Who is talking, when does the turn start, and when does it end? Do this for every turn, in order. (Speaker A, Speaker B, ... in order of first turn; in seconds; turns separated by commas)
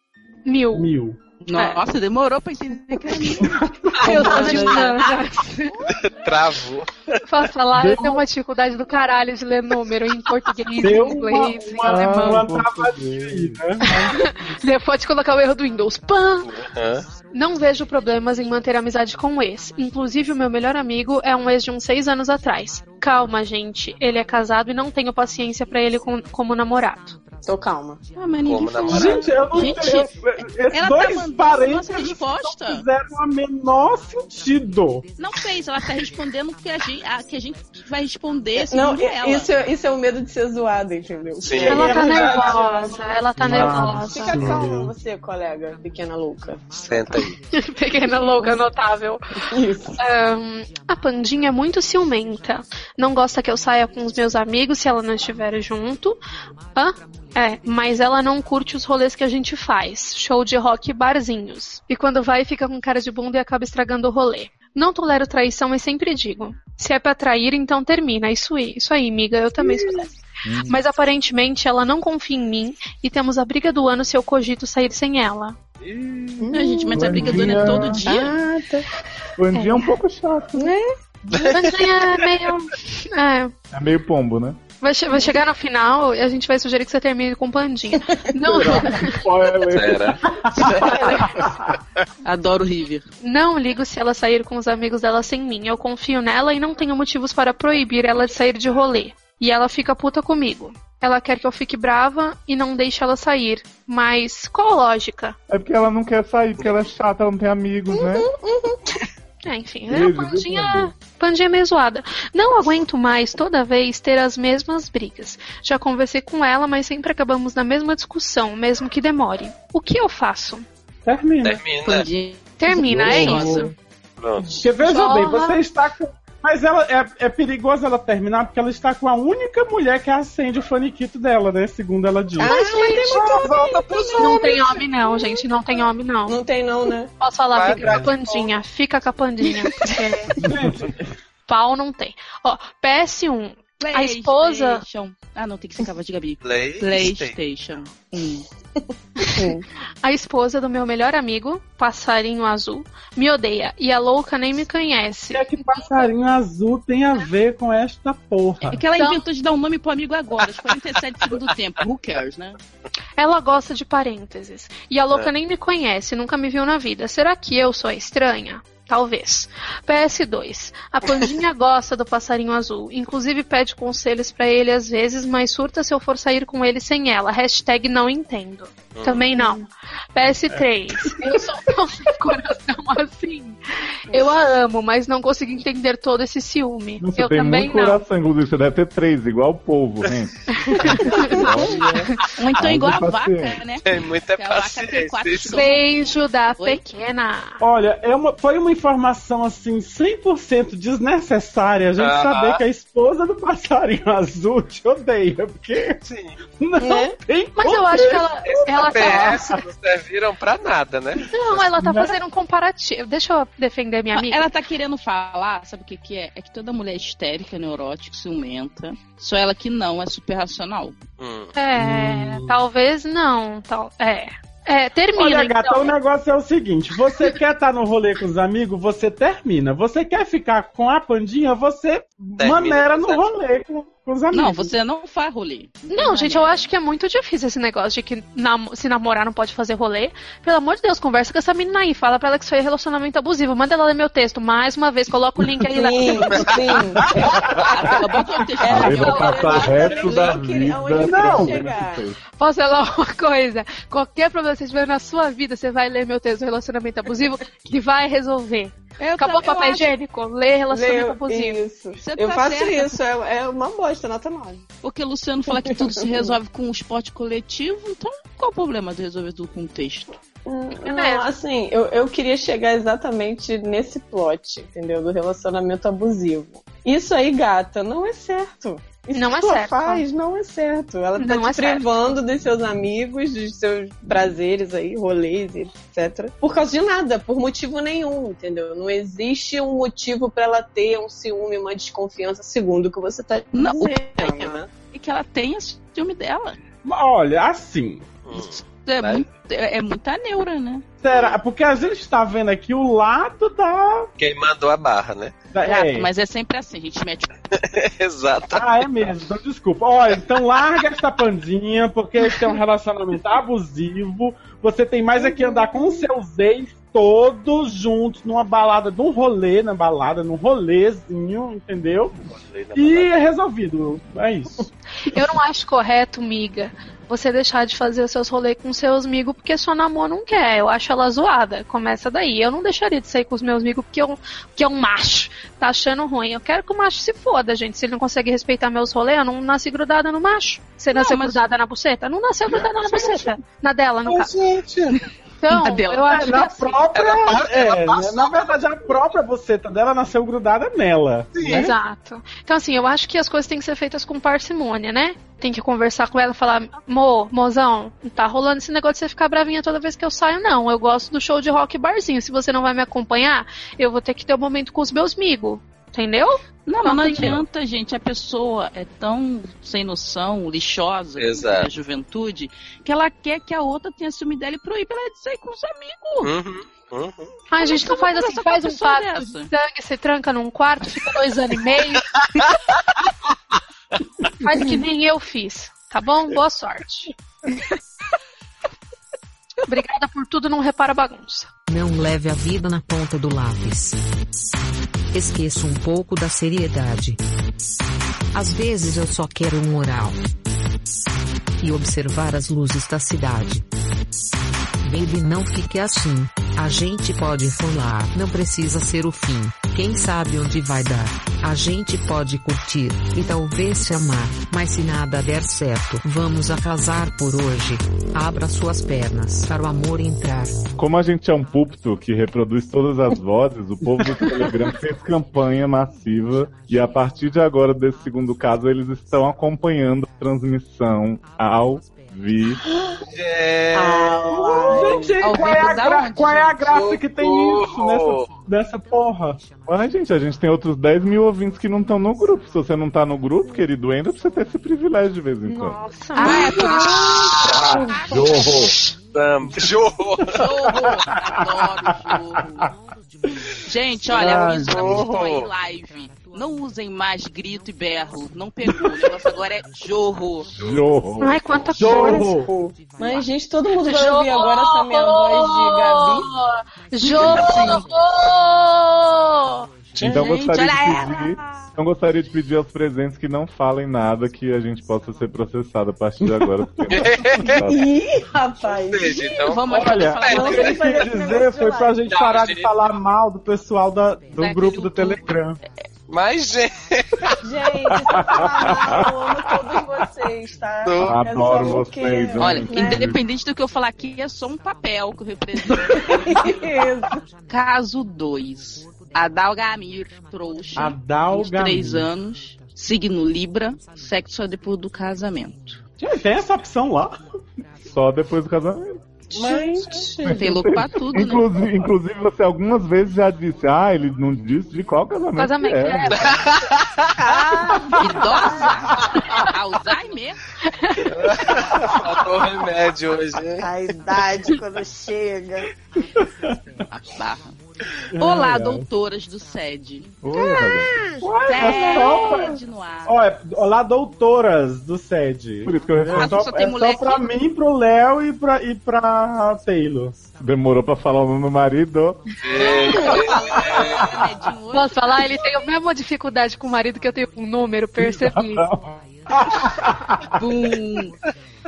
Speaker A: 0.5-0.9, Speaker B: 0.7-1.2, Speaker C: 1.4-5.2, Speaker A: 1.5-1.8, Speaker B: 3.4-4.8, Speaker A: 4.0-5.8, Speaker D: 4.4-4.8, Speaker E: 5.9-7.2, Speaker A: 7.2-12.4, Speaker B: 7.7-8.2, Speaker B: 10.8-14.2, Speaker F: 11.9-13.6, Speaker A: 13.8-16.5, Speaker E: 16.4-17.1, Speaker A: 17.3-27.2, Speaker D: 27.4-28.0, Speaker C: 28.2-30.1, Speaker E: 28.4-29.3, Speaker B: 28.9-35.1, Speaker C: 30.7-32.9, Speaker C: 35.2-39.5, Speaker D: 38.6-47.2, Speaker E: 41.4-42.4, Speaker A: 41.7-44.4, Speaker B: 41.7-44.9, Speaker E: 46.7-47.4, Speaker A: 47.5-49.2, Speaker D: 49.5-50.0, Speaker A: 50.0-56.2, Speaker A: 56.8-70.1, Speaker F: 70.5-70.8, Speaker A: 70.7-75.6, Speaker D: 76.4-77.4, Speaker C: 76.5-78.4, Speaker F: 76.9-78.0, Speaker B: 77.2-77.6, Speaker D: 78.0-78.9, Speaker F: 79.4-80.7, Speaker A: 79.5-79.8, Speaker D: 80.6-80.9, Speaker A: 81.3-83.5, Speaker E: 81.3-82.1, Speaker F: 83.7-84.6, Speaker A: 84.8-89.2, Speaker F: 88.5-90.2, Speaker D: 88.5-88.9, Speaker E: 89.7-91.4, Speaker D: 90.9-91.2, Speaker C: 92.2-93.1, Speaker A: 93.2-105.4, Speaker F: 105.5-108.3, Speaker D: 107.9-109.0, Speaker A: 109.5-120.7, Speaker F: 109.9-110.9, Speaker B: 121.0-121.6, Speaker E: 121.4-122.1, Speaker C: 121.8-123.7, Speaker A: 122.6-123.7, Speaker B: 122.8-123.7, Speaker E: 124.2-124.5, Speaker B: 124.4-134.6, Speaker A: 124.8-125.6, Speaker D: 132.4-134.6, Speaker A: 132.4-133.2, Speaker A: 134.2-136.4, Speaker D: 136.3-137.1, Speaker A: 137.2-140.4, Speaker E: 137.5-138.5, Speaker B: 137.8-138.1, Speaker B: 140.4-141.1, Speaker A: 141.5-144.8, Speaker C: 143.8-148.5, Speaker E: 146.4-147.4, Speaker D: 149.3-149.6, Speaker A: 150.0-156.1, Speaker B: 155.3-158.8, Speaker C: 158.6-162.6, Speaker A: 159.0-159.2, Speaker A: 163.2-188.0, Speaker E: 178.9-179.3, Speaker B: 180.5-181.1, Speaker F: 187.0-192.0, Speaker A: 190.5-191.5, Speaker D: 191.1-191.8, Speaker C: 192.4-195.8, Speaker F: 192.6-193.6, Speaker E: 193.9-195.7, Speaker A: 195.5-197.6, Speaker B: 197.6-206.0, Speaker E: 202.0-202.6, Speaker E: 206.0-206.4, Speaker B: 206.5-209.5, Speaker D: 206.8-207.2, Speaker A: 207.6-209.6, Speaker E: 208.5-211.7, Speaker A: 211.3-214.5, Speaker B: 211.8-212.2, Speaker C: 214.1-221.0, Speaker E: 221.2-221.5, Speaker A: 221.6-225.9, Speaker B: 221.8-222.5, Speaker B: 225.2-234.7, Speaker E: 232.4-233.2, Speaker C: 234.3-236.7, Speaker A: 235.9-246.6, Speaker D: 245.7-247.4, Speaker C: 247.6-250.4, Speaker D: 248.6-252.1, Speaker F: 248.7-252.2, Speaker A: 249.1-249.4, Speaker B: 251.0-251.6, Speaker A: 252.4-261.6, Speaker C: 259.0-259.9, Speaker D: 260.7-264.6, Speaker C: 262.0-263.0, Speaker C: 264.8-270.2, Speaker D: 265.5-266.4, Speaker D: 270.4-294.6, Speaker A: 270.8-271.3, Speaker A: 279.1-280.1, Speaker A: 281.2-281.9, Speaker C: 293.5-296.6, Speaker E: 294.2-294.6, Speaker B: 296.8-298.2, Speaker E: 298.2-299.2, Speaker C: 298.3-300.9, Speaker B: 301.0-304.1, Speaker E: 301.1-301.4, Speaker E: 304.2-305.5, Speaker B: 305.5-306.1, Speaker C: 305.6-307.3, Speaker E: 307.5-308.9, Speaker B: 308.5-324.7, Speaker D: 315.2-316.1, Speaker E: 322.2-323.2, Speaker A: 325.0-344.3, Speaker C: 340.9-341.4, Speaker E: 344.1-345.0, Speaker A: 345.4-346.8, Speaker C: 345.5-346.5, Speaker B: 346.1-351.7, Speaker E: 346.9-348.6, Speaker E: 351.3-351.7, Speaker A: 351.4-367.4, Speaker C: 366.7-376.3, Speaker E: 371.2-371.7, Speaker E: 376.2-377.3, Speaker A: 377.5-382.1, Speaker C: 377.6-379.5, Speaker E: 382.2-382.5, Speaker A: 384.4-387.1, Speaker A: 389.7-391.5, Speaker G: 391.7-394.0, Speaker G: 395.1-397.2, Speaker G: 398.3-400.2, Speaker G: 401.6-403.7, Speaker G: 404.8-420.6, Speaker F: 420.8-432.6, Speaker D: 432.7-433.0, Speaker E: 433.0-434.3, Speaker D: 433.7-435.2, Speaker B: 434.3-439.4, Speaker C: 435.2-436.6, Speaker E: 436.7-438.4, Speaker F: 439.6-445.8, Speaker A: 445.5-447.2, Speaker C: 446.2-448.5, Speaker D: 446.2-448.5, Speaker E: 446.8-447.8, Speaker F: 448.1-448.8, Speaker E: 449.1-450.5, Speaker C: 450.3-452.7, Speaker C: 453.6-460.5, Speaker B: 454.1-454.9, Speaker E: 454.6-455.5, Speaker F: 460.6-461.7, Speaker A: 461.2-462.2, Speaker B: 461.8-462.5, Speaker D: 461.8-466.3, Speaker A: 463.9-469.7, Speaker C: 467.1-467.8, Speaker E: 467.2-467.8, Speaker E: 470.0-470.3, Speaker F: 470.0-477.9, Speaker C: 470.1-471.7, Speaker B: 476.2-476.5, Speaker E: 476.9-477.7, Speaker D: 477.6-479.3, Speaker E: 478.7-480.9, Speaker C: 479.1-481.0, Speaker B: 479.7-485.6, Speaker D: 480.3-482.0, Speaker E: 482.1-482.7, Speaker C: 484.4-485.3, Speaker E: 486.1-487.4, Speaker D: 487.4-493.1, Speaker F: 488.2-489.0, Speaker E: 490.8-491.3, Speaker F: 491.0-493.2, Speaker C: 492.4-496.9, Speaker D: 495.9-497.2, Speaker C: 497.5-505.8, Speaker B: 500.8-502.1, Speaker B: 506.0-507.2, Speaker F: 507.8-509.0, Speaker E: 509.3-510.1, Speaker D: 509.4-510.5, Speaker F: 510.3-516.4, Speaker C: 510.4-511.5, Speaker A: 515.4-516.3, Speaker E: 516.1-517.2, Speaker D: 517.2-518.8, Speaker C: 518.0-520.4, Speaker E: 519.0-519.2, Speaker A: 520.6-521.1, Speaker E: 521.1-523.7, Speaker D: 523.6-525.7, Speaker B: 526.2-526.6, Speaker C: 526.9-527.6, Speaker B: 528.1-528.9, Speaker C: 528.2-530.1, Speaker F: 530.2-530.9, Speaker D: 530.3-531.2, Speaker B: 531.2-540.2, Speaker C: 531.5-533.2, Speaker F: 535.6-536.4, Speaker C: 536.1-537.3, Speaker F: 540.4-542.2, Speaker E: 542.4-544.1, Speaker C: 542.6-545.4, Speaker D: 542.7-543.1, Speaker B: 544.0-544.3, Speaker A: 544.7-548.6, Speaker B: 548.0-550.3, Speaker C: 550.4-551.2